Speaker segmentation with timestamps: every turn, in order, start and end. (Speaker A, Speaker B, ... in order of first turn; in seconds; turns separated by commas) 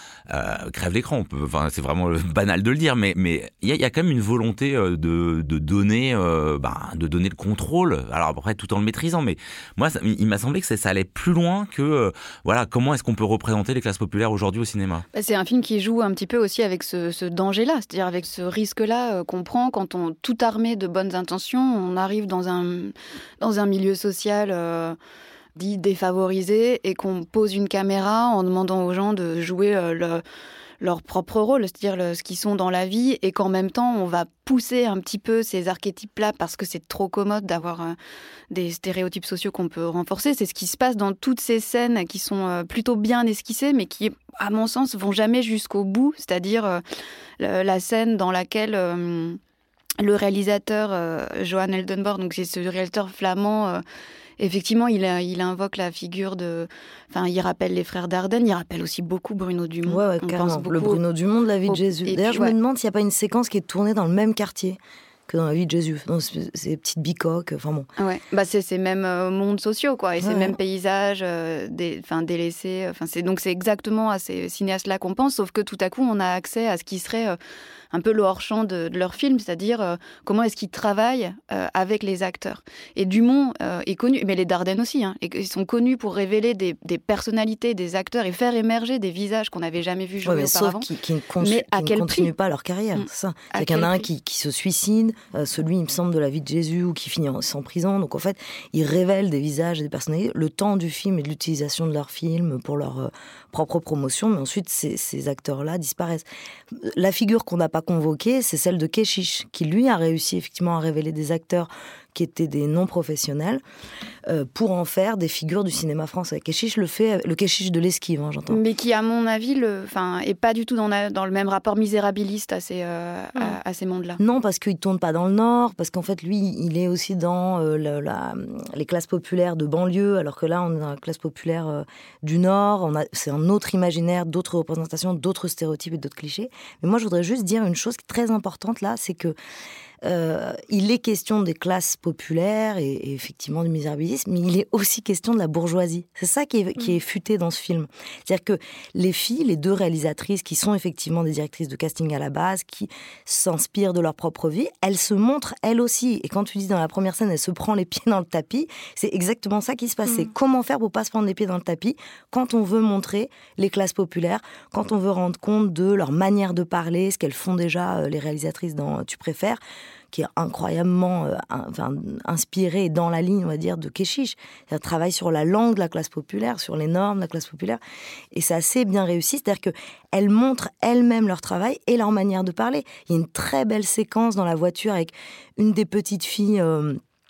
Speaker A: 0.3-15.0, Speaker B: 15.1-25.0, Speaker B: 25.6-30.2, Speaker B: 30.8-37.9, Speaker B: 38.5-46.8, Speaker B: 47.4-49.4, Speaker B: 50.0-53.8, Speaker B: 54.4-61.0, Speaker C: 59.8-67.9, Speaker B: 61.7-62.5, Speaker B: 68.0-77.4, Speaker C: 70.2-70.5, Speaker B: 77.9-90.9, Speaker C: 90.2-113.6, Speaker B: 91.4-92.3, Speaker B: 92.9-94.0, Speaker C: 114.3-118.6, Speaker B: 118.5-124.2, Speaker C: 124.2-139.3, Speaker C: 140.0-169.6, Speaker C: 170.1-177.8, Speaker C: 178.3-187.0